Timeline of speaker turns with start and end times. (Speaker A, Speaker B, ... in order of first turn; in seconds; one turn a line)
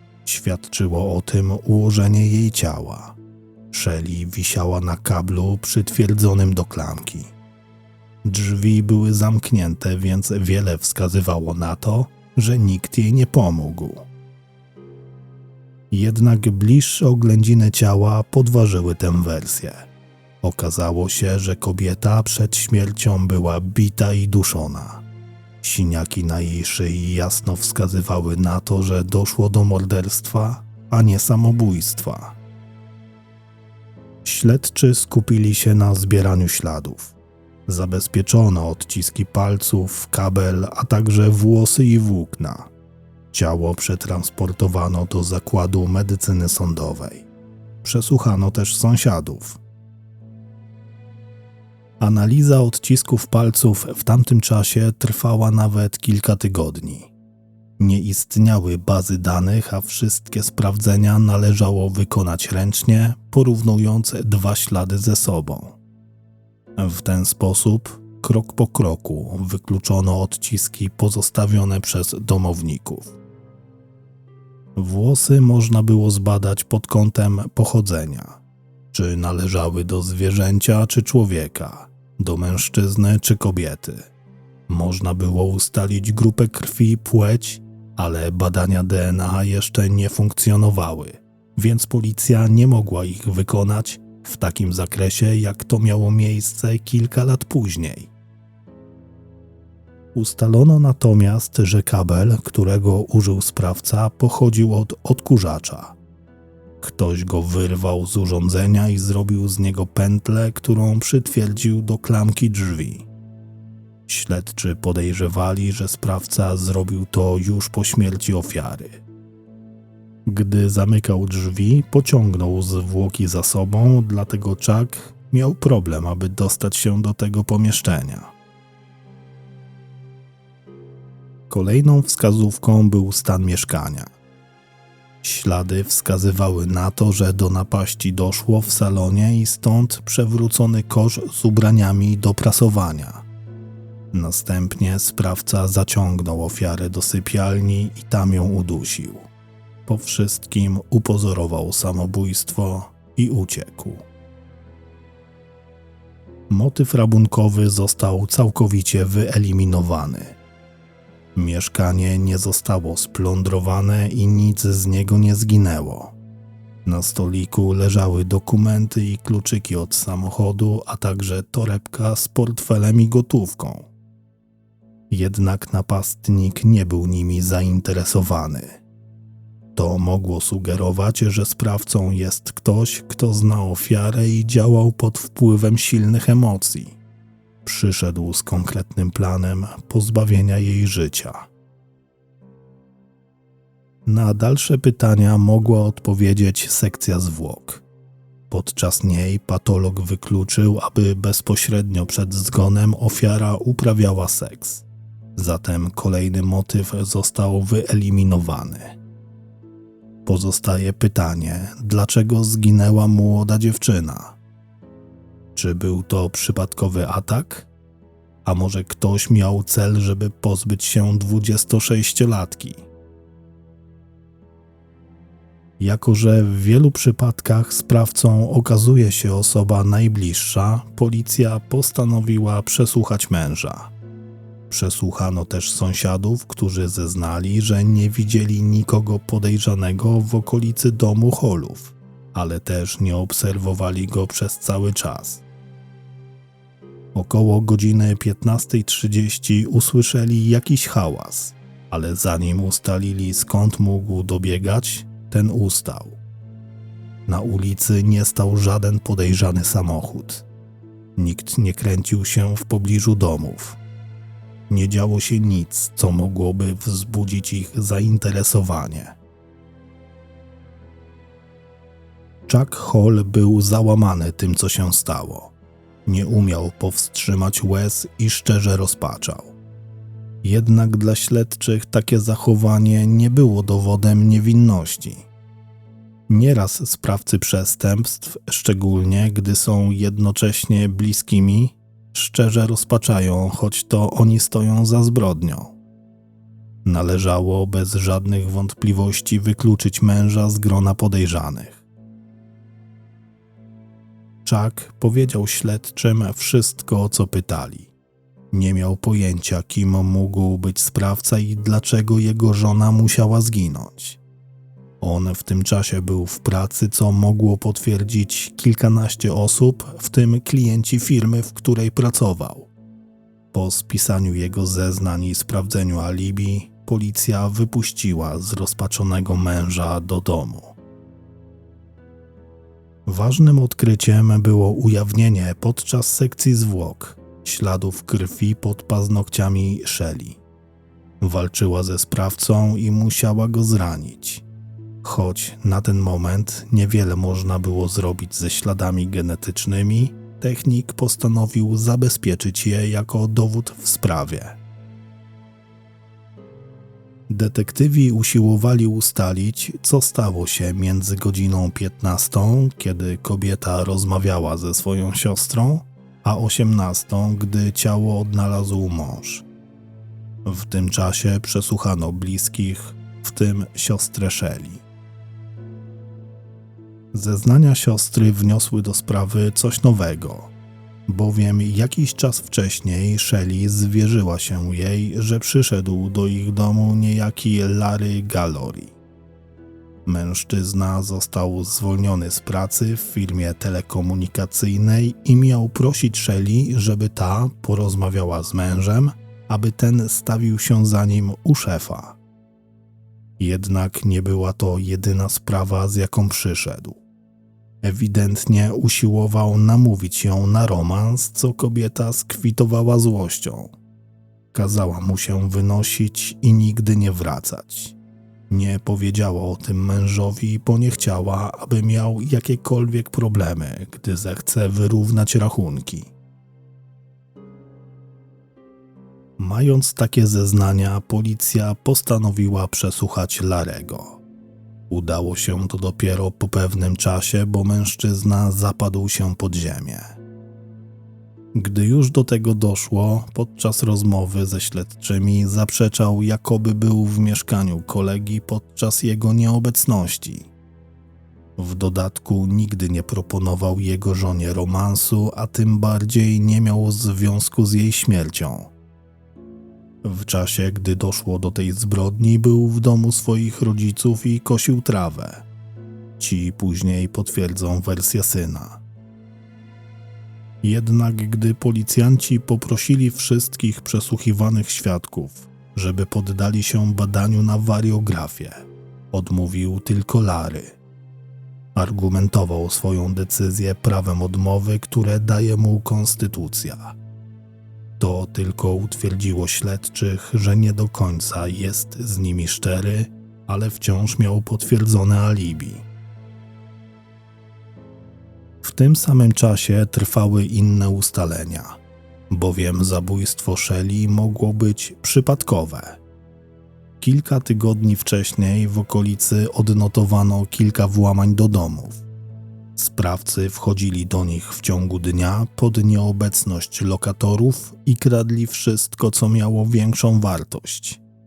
Speaker A: 0.2-3.2
Speaker A: 3.7-7.3
Speaker A: 8.2-14.1
Speaker A: 15.9-19.9
Speaker A: 20.4-25.0
Speaker A: 25.6-32.4
Speaker A: 34.2-37.2
Speaker A: 37.7-42.7
Speaker A: 43.3-47.3
Speaker A: 47.8-49.6
Speaker A: 52.0-57.1
Speaker A: 57.8-65.8
Speaker A: 66.8-73.2
Speaker A: 74.8-78.4
Speaker A: 78.9-84.1
Speaker A: 84.7-98.1
Speaker A: 100.2-106.0
Speaker A: 106.8-113.1
Speaker A: 114.1-119.0
Speaker A: 120.3-128.3
Speaker A: 131.5-134.1
Speaker A: 135.2-143.2
Speaker A: 144.1-149.3
Speaker A: 149.9-154.1
Speaker A: 156.5-160.4
Speaker A: 161.4-166.2
Speaker A: 166.8-173.9
Speaker A: 175.1-178.8
Speaker A: 179.8-187.0
Speaker A: 187.7-191.5
Speaker A: 194.1-197.8
Speaker A: 198.5-209.0
Speaker A: 210.2-214.4
Speaker A: 215.6-217.7
Speaker A: 218.4-222.8
Speaker A: 225.8-233.9
Speaker A: 234.7-245.4
Speaker A: 247.1-256.2
Speaker A: 257.3-260.5
Speaker A: 261.2-263.8
Speaker A: 264.7-269.2
Speaker A: 272.5-275.5
Speaker A: 276.1-279.6
Speaker A: 280.4-285.3
Speaker A: 286.3-295.8
Speaker A: 296.9-301.9
Speaker A: 304.4-307.9
Speaker A: 308.5-314.2
Speaker A: 315.0-322.7
Speaker A: 323.5-330.8
Speaker A: 333.1-340.4
Speaker A: 341.2-344.4
Speaker A: 345.0-354.6
Speaker A: 357.3-369.5
Speaker A: 370.4-374.8
Speaker A: 377.1-380.5
Speaker A: 381.1-389.0
Speaker A: 390.1-402.2
Speaker A: 403.4-407.0
Speaker A: 407.8-413.7
Speaker A: 414.5-418.0
Speaker A: 418.5-426.1
Speaker A: 429.4-434.2
Speaker A: 434.9-440.1
Speaker A: 441.6-450.5
Speaker A: 451.6-458.7
Speaker A: 460.0-465.4
Speaker A: 466.2-468.8
Speaker A: 470.6-480.8
Speaker A: 481.8-487.0
Speaker A: 488.0-495.9
Speaker A: 498.6-501.8
Speaker A: 502.3-506.0
Speaker A: 507.0-512.0
Speaker A: 512.8-521.0